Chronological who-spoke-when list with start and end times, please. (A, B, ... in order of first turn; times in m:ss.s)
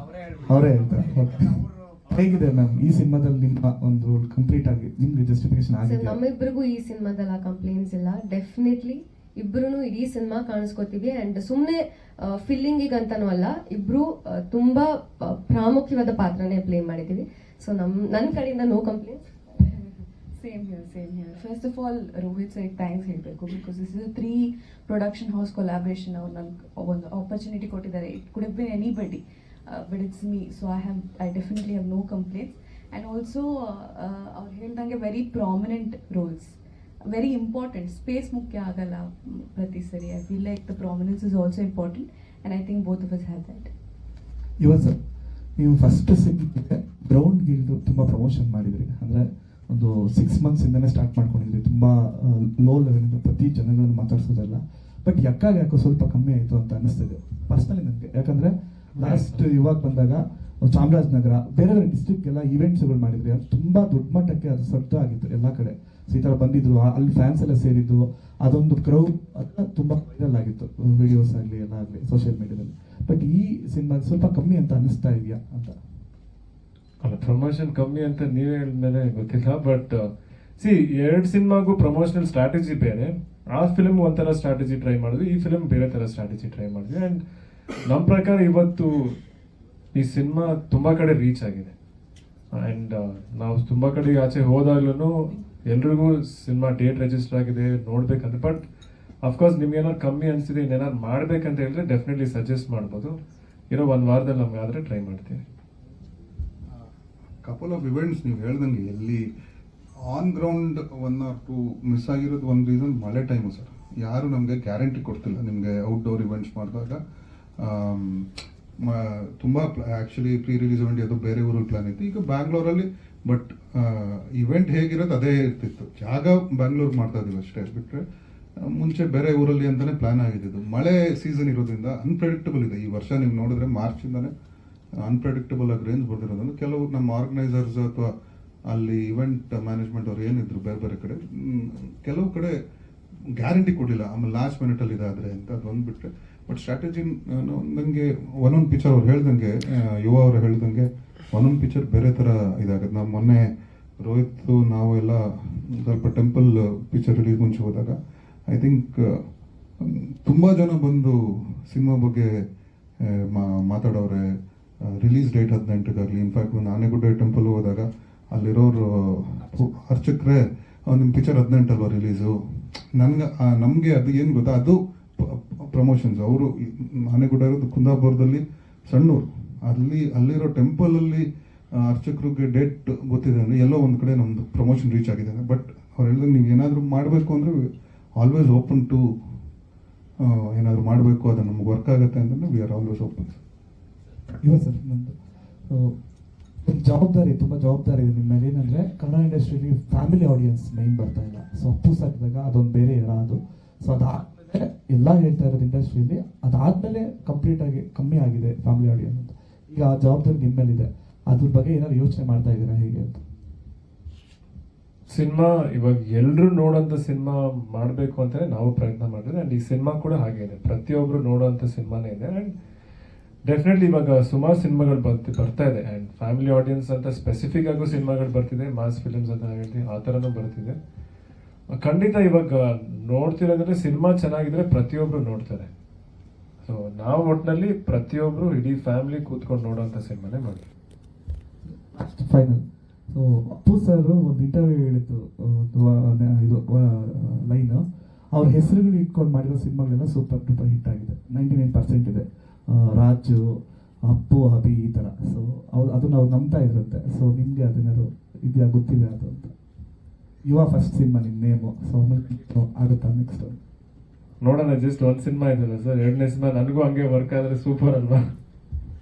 0:00.4-0:06.2 A
0:05.8-0:19.4 B
0:19.6-0:43.7 C
0:44.6-0:45.0 A
0:45.6-1:15.8 A
0:59.0-0:59.4 D
1:17.0-1:20.1 D
1:20.6-1:27.2 D
1:27.8-1:29.2 D
1:29.9-1:31.7 D
1:32.5-1:38.6 D
1:39.2-1:43.1 D
1:43.7-1:45.4 D
1:47.4-1:49.2 E
1:50.1-1:57.0 E
1:57.6-2:08.0 E
2:08.6-2:14.3 E
2:15.0-2:18.1 E
2:18.7-2:22.5 E
2:23.4-2:33.4 E
2:34.0-2:39.2 E
2:39.8-2:42.4 E
2:43.0-2:52.3 E
2:53.0-3:09.0 E
3:10.2-3:13.4 E
3:14.4-3:15.2 A
3:15.7-3:15.9 A
3:16.6-3:33.2 A
3:35.1-3:42.5 D
3:43.4-3:50.8 D
3:51.7-3:55.7 D
3:56.6-4:00.6 D
4:01.8-4:19.5 A
4:20.5-4:23.6 A
4:24.4-4:28.2 D